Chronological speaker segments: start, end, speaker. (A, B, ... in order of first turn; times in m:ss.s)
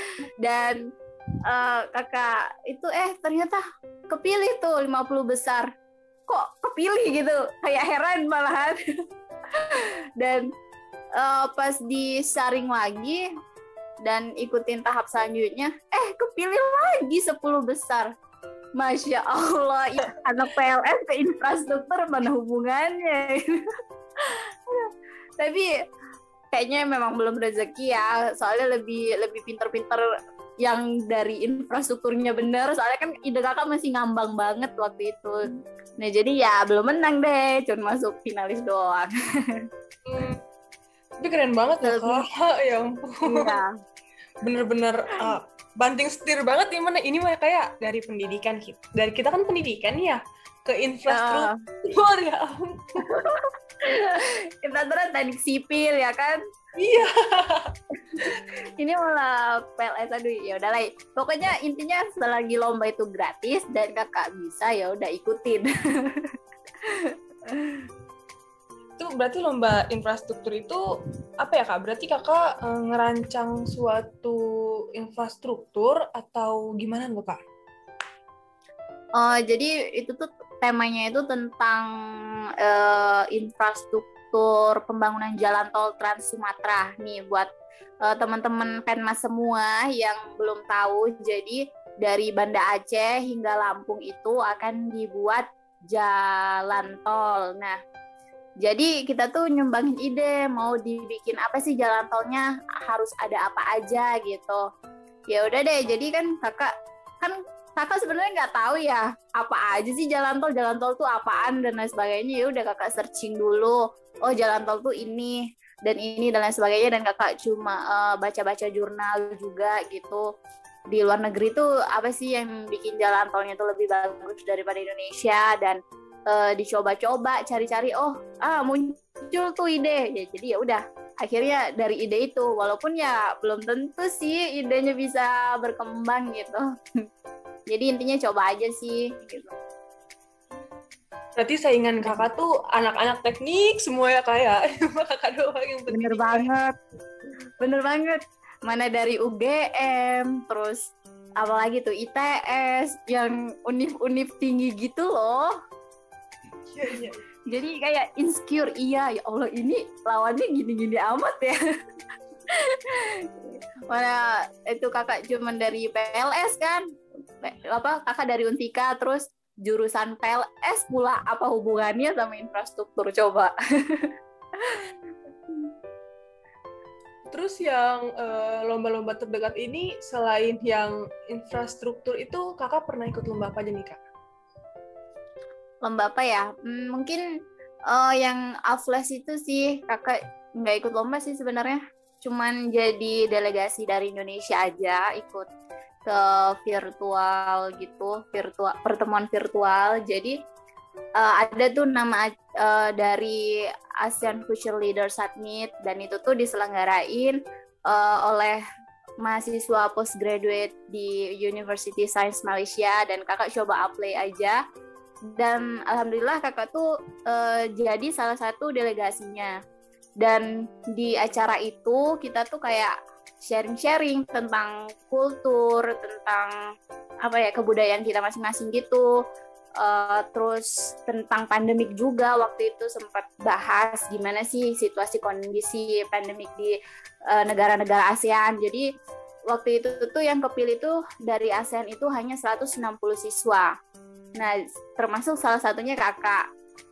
0:00.4-0:00.8 A
0:01.5-0:05.7 A
0:06.3-0:08.8 A
0:09.6-0:10.5 A
0:11.2-0:13.2 A
0:14.0-0:18.1 A
0:18.8-0:23.4 A
0:24.7-0:25.7 A
0:26.5-0:30.0 A
0:30.6-0:35.4 A
0:36.0-0:39.6 A
0:40.0-0:40.4 B
0:41.2-0:43.6 B
0:41.8-0:42.2 A
0:43.3-0:43.7 A
0:44.4-0:52.8 B
0:51.1-0:51.5 A
0:53.0-0:56.4 A
0:56.8-0:57.7 B
0:58.1-1:06.3 A
1:07.0-1:07.8 A
1:09.0-1:10.8 B
1:11.4-1:14.4 B
1:15.0-1:17.4 B
1:19.2-1:21.9 A
1:22.6-1:27.5 A
1:28.0-1:37.8 A
1:38.6-1:44.6 A
1:45.3-2:00.2 A
2:00.9-2:16.6 A
2:17.7-2:19.5 A
2:21.4-2:26.5 B
2:25.9-2:26.7 A
2:27.6-2:30.8 A
2:31.4-2:35.5 A
2:36.7-2:37.2 B
2:37.5-2:41.6 A
2:42.8-2:46.8 A
2:47.4-2:54.1 A
2:57.3-3:04.0 B
3:05.8-3:07.2 A
3:07.9-3:15.4 A
3:16.1-3:20.3 A
3:21.2-3:28.6 A
3:29.2-3:34.6 A
3:35.4-3:39.5 A
3:40.2-3:46.5 A
3:47.2-3:49.1 A
3:49.8-3:56.8 A
3:57.3-3:58.8 A
3:59.5-4:03.7 A
4:04.4-4:06.4 A